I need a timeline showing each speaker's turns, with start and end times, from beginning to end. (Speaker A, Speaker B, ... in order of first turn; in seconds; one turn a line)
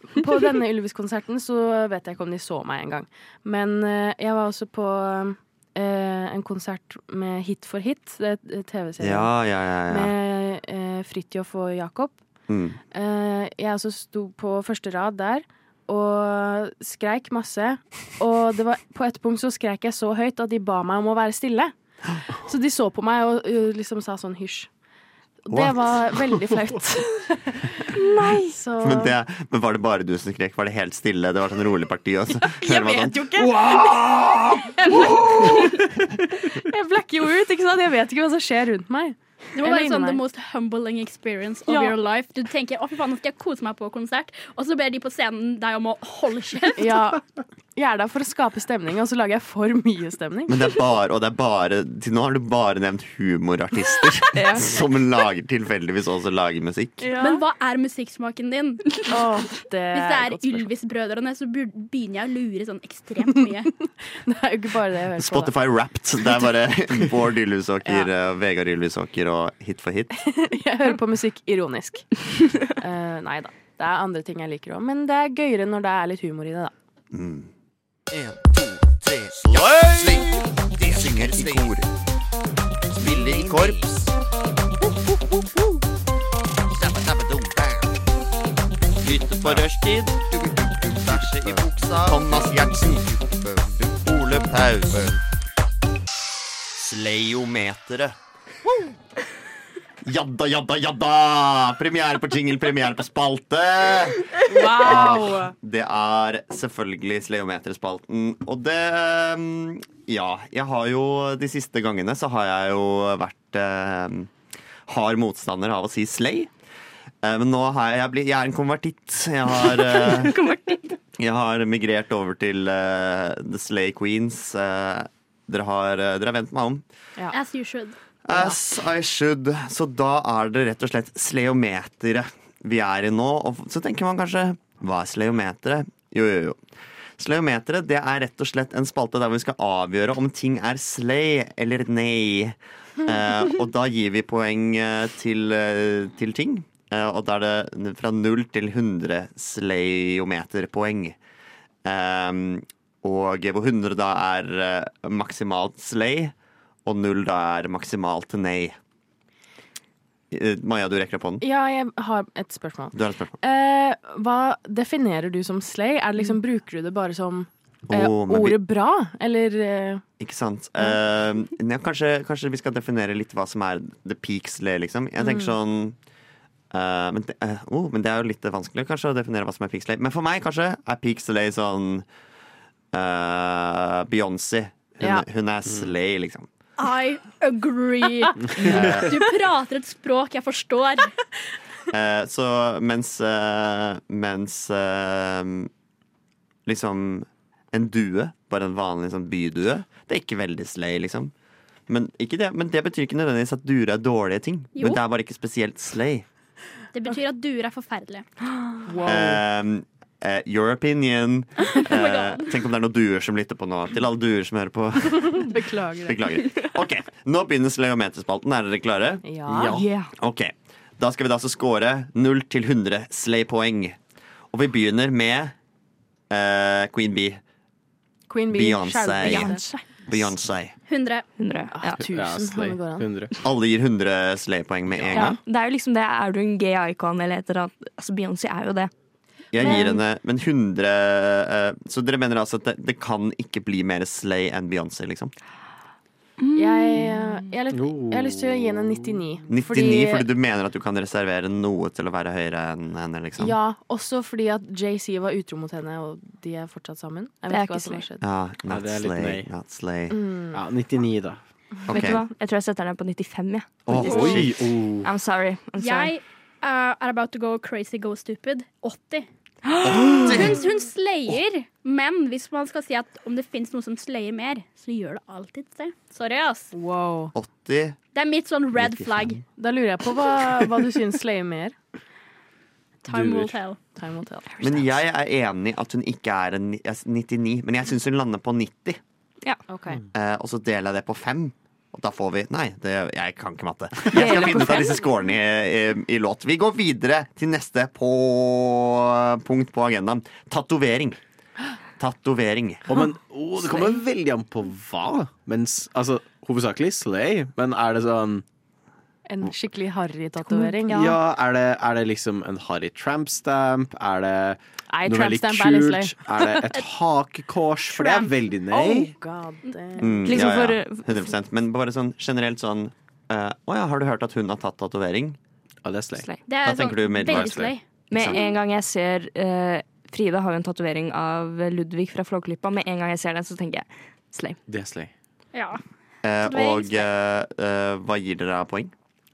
Speaker A: 0.1-9.3
Speaker B: 9.0-10.1
Speaker A: 9.9-12.2
Speaker B: 12.5-12.8
Speaker A: 12.9-21.7
Speaker A: 22.3-24.7
Speaker A: 25.4-29.1
Speaker B: 25.5-26.0
Speaker C: 27.9-28.6
Speaker B: 28.8-34.6
Speaker A: 32.5-40.2
Speaker D: 39.6-47.0
Speaker A: 41.7-42.0
Speaker A: 46.8-47.2
Speaker A: 47.8-50.6
Speaker B: 50.5-57.1
Speaker C: 54.4-54.7
Speaker A: 57.0-57.4
Speaker D: 57.2-59.1
Speaker A: 59.1-60.6
Speaker D: 59.9-63.7
Speaker A: 64.2-65.5
Speaker B: 65.2-70.2
Speaker A: 70.2-76.7
Speaker B: 77.1-77.5
Speaker E: 78.1-81.8
Speaker B: 79.5-80.2
Speaker B: 80.9-81.9
Speaker E: 82.9-84.1
Speaker B: 83.0-83.8
Speaker E: 86.7-88.1
Speaker E: 89.0-95.2
Speaker B: 89.0-90.2
Speaker B: 90.9-93.0
Speaker B: 94.5-95.0
Speaker B: 96.8-98.2
Speaker B: 100.0-114.3
Speaker A: 104.4-105.5
Speaker B: 114.9-116.5
Speaker B: 117.2-120.4
Speaker C: 119.7-121.0
Speaker B: 121.2-126.8
Speaker D: 127.3-128.0
Speaker B: 128.2-136.6
Speaker B: 137.2-151.2
Speaker B: 151.8-156.3
Speaker B: 156.8-158.8
Speaker B: 160.3-161.4
Speaker A: 161.4-170.0
Speaker B: 162.9-163.4
Speaker B: 167.9-168.6
Speaker B: 170.2-176.0
Speaker A: 175.2-175.5
Speaker B: 176.7-182.1
Speaker B: 182.9-186.5
Speaker D: 186.8-191.1
Speaker F: 188.6-189.0
Speaker B: 188.6-189.1
Speaker B: 191.9-195.7
Speaker B: 196.7-201.3
Speaker B: 201.9-206.2
Speaker D: 206.9-208.2
Speaker A: 208.9-209.4
Speaker B: 209.0-215.5
Speaker D: 211.7-212.6
Speaker A: 215.1-216.2
Speaker B: 216.1-224.0
Speaker A: 219.2-219.8
Speaker C: 219.6-220.1
Speaker B: 224.5-225.6
Speaker B: 226.3-227.4
Speaker A: 228.3-229.6
Speaker B: 228.5-230.8
Speaker C: 229.2-229.8
Speaker D: 230.9-231.3
Speaker C: 231.4-232.0
Speaker A: 231.7-233.1
Speaker F: 232.0-233.3
Speaker B: 233.4-235.4
Speaker F: 234.9-235.2
Speaker C: 235.2-238.9
Speaker B: 239.5-245.3
Speaker C: 239.6-239.9
Speaker A: 239.6-239.9
Speaker C: 246.4-247.5
Speaker A: 246.6-250.3
Speaker F: 247.7-249.2
Speaker B: 249.5-253.6
Speaker A: 253.4-258.2
Speaker C: 257.5-258.1
Speaker B: 258.2-260.2
Speaker F: 258.7-259.5
Speaker A: 260.1-260.6
Speaker F: 260.5-261.4
Speaker B: 261.9-262.2
Speaker C: 261.9-264.5
Speaker B: 263.9-264.6
Speaker F: 263.9-265.1
Speaker C: 265.0-266.1
Speaker D: 265.8-269.3
Speaker C: 269.7-270.5
Speaker B: 269.8-270.6
Speaker D: 270.1-276.7
Speaker A: 276.7-277.3
Speaker B: 277.4-278.0
Speaker D: 278.1-279.4
Speaker B: 278.8-279.4
Speaker A: 279.6-281.8
Speaker D: 283.1-283.8
Speaker F: 283.1-283.6
Speaker A: 283.9-284.5
Speaker B: 284.6-289.0
Speaker A: 289.7-290.0
Speaker B: 290.1-301.2
Speaker C: 294.1-295.0
Speaker B: 302.0-302.9
Speaker F: 302.9-308.4
Speaker A: 309.3-311.1
Speaker C: 310.5-311.0
Speaker F: 310.9-319.1
Speaker A: 314.9-316.7
Speaker A: 318.1-320.4
Speaker B: 320.0-325.4
Speaker C: 320.2-321.3
Speaker F: 325.9-326.3
Speaker D: 326.5-328.5
Speaker B: 326.6-328.4
Speaker F: 327.2-327.7
Speaker C: 328.1-334.6
Speaker F: 334.7-335.1
Speaker D: 335.5-335.8
Speaker B: 336.2-338.9
Speaker D: 336.4-337.1